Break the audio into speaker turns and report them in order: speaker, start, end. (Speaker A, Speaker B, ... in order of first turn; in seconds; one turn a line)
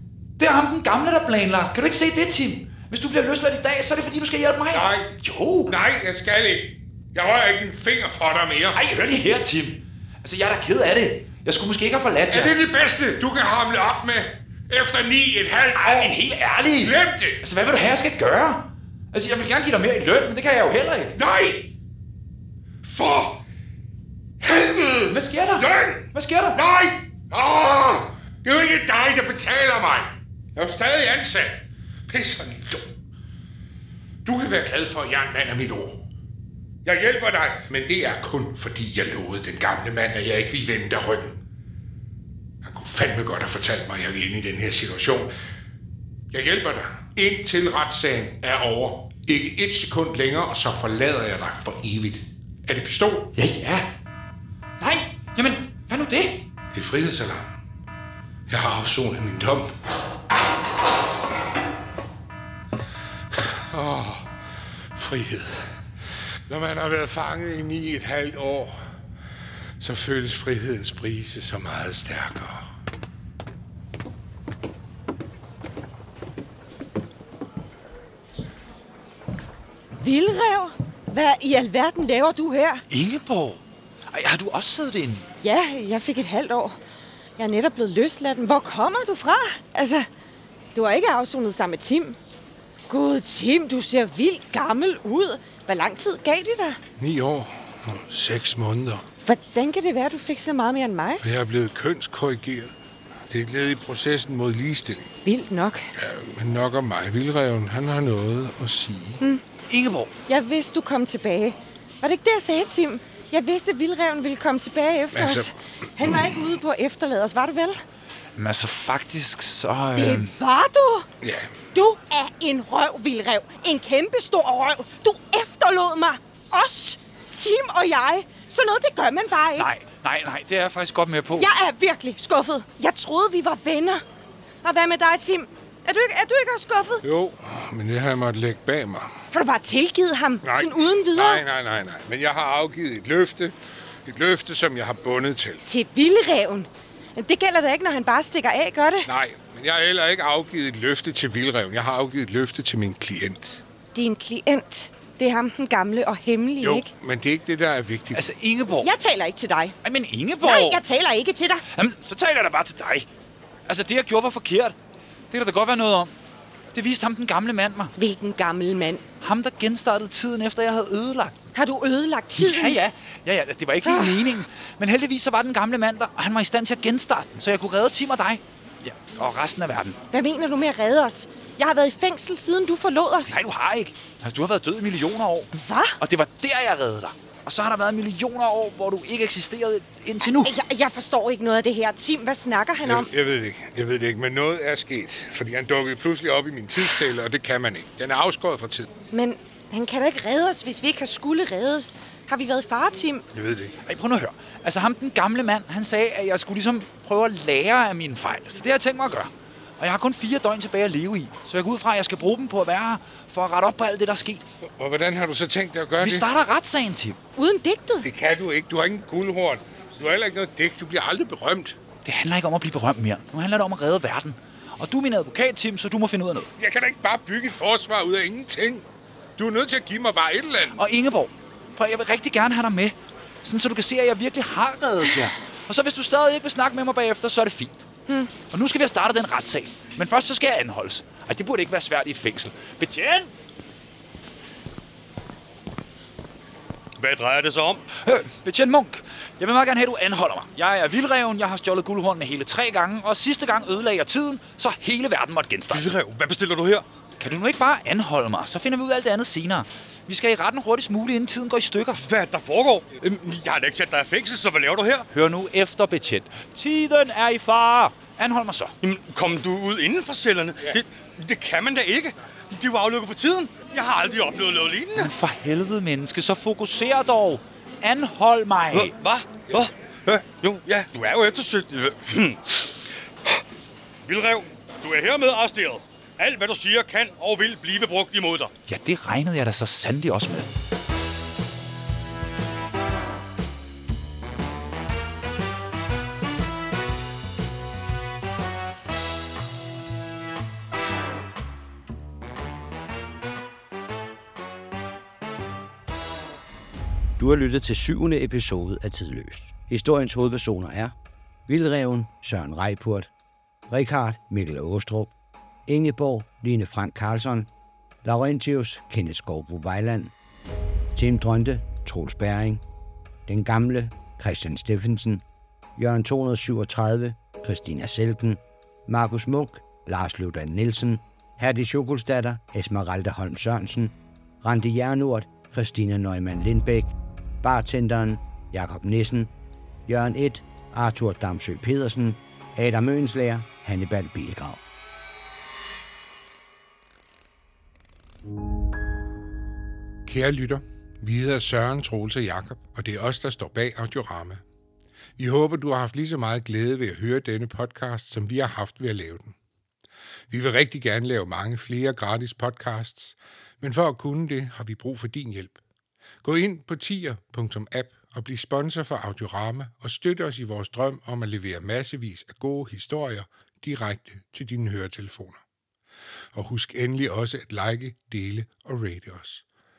Speaker A: 0.4-5.7
Speaker B: 4.7-5.1
Speaker B: 5.7-8.8
Speaker A: 8.7-12.5
Speaker B: 12.3-16.2
Speaker A: 15.8-21.2
Speaker B: 16.8-17.4
Speaker B: 21.1-21.7
Speaker B: 22.8-23.4
Speaker B: 24.4-32.9
Speaker A: 25.1-26.6
Speaker B: 34.2-36.0
Speaker B: 36.8-41.4
Speaker B: 42.6-45.3
Speaker B: 46.3-53.3
Speaker A: 53.4-53.9
Speaker A: 54.8-56.4
Speaker B: 56.7-57.5
Speaker B: 58.5-59.7
Speaker B: 63.3-64.3
Speaker B: 64.9-65.8
Speaker B: 66.5-68.8
Speaker B: 69.8-72.7
Speaker C: 80.0-82.8
Speaker A: 82.9-85.3
Speaker C: 85.4-86.8
Speaker C: 87.4-90.1
Speaker C: 90.8-92.2
Speaker C: 92.9-96.8
Speaker B: 97.0-99.0
Speaker C: 99.3-101.2
Speaker B: 101.2-102.7
Speaker B: 103.3-105.1
Speaker C: 105.2-105.9
Speaker B: 105.9-109.2
Speaker A: 109.7-110.1
Speaker C: 110.3-117.8
Speaker B: 115.1-116.2
Speaker A: 118.4-120.3
Speaker C: 120.0-121.1
Speaker B: 121.2-121.6
Speaker C: 121.7-129.7
Speaker A: 129.6-131.5
Speaker C: 131.4-134.0
Speaker C: 134.6-137.0
Speaker B: 137.0-139.1
Speaker C: 139.3-141.4
Speaker B: 140.4-145.6
Speaker C: 145.7-149.1
Speaker B: 149.1-153.6
Speaker C: 153.9-156.9
Speaker B: 156.6-158.2
Speaker A: 158.1-158.9
Speaker C: 158.8-159.8
Speaker A: 159.8-160.8
Speaker C: 160.4-161.6
Speaker A: 161.7-163.1
Speaker A: 163.7-164.8
Speaker A: 165.3-166.1
Speaker A: 166.7-167.9
Speaker C: 167.9-169.0
Speaker A: 169.2-171.3
Speaker C: 171.6-172.8
Speaker A: 172.3-180.0
Speaker C: 173.8-174.4
Speaker C: 180.1-183.4
Speaker A: 183.3-190.6
Speaker C: 185.5-186.0
Speaker C: 190.3-193.1
Speaker B: 192.8-198.9
Speaker C: 199.1-203.2
Speaker B: 203.3-203.8
Speaker A: 203.9-214.4
Speaker B: 214.6-216.3
Speaker A: 216.0-217.2
Speaker C: 217.4-218.1
Speaker B: 218.0-221.8
Speaker A: 222.1-226.5
Speaker B: 226.6-228.8
Speaker B: 229.4-230.8
Speaker A: 230.8-237.8
Speaker A: 238.5-243.3
Speaker D: 247.0-247.8
Speaker A: 248.0-255.9
Speaker D: 255.7-256.9
Speaker A: 257.2-262.0
Speaker D: 261.9-265.1
Speaker A: 265.1-268.7
Speaker D: 268.8-275.1
Speaker A: 274.9-278.9
Speaker D: 278.7-283.4
Speaker D: 284.1-288.5
Speaker A: 288.7-290.5
Speaker E: 307.2-310.9
Speaker E: 311.5-313.1
Speaker E: 313.7-315.1
Speaker E: 315.7-317.5
Speaker E: 318.0-320.1
Speaker E: 320.9-322.6
Speaker E: 323.3-325.2
Speaker E: 325.8-339.3
Speaker E: 339.9-344.6
Speaker B: 350.1-354.4
Speaker B: 355.2-359.4
Speaker B: 360.3-365.6
Speaker B: 366.2-375.4
Speaker B: 376.3-379.4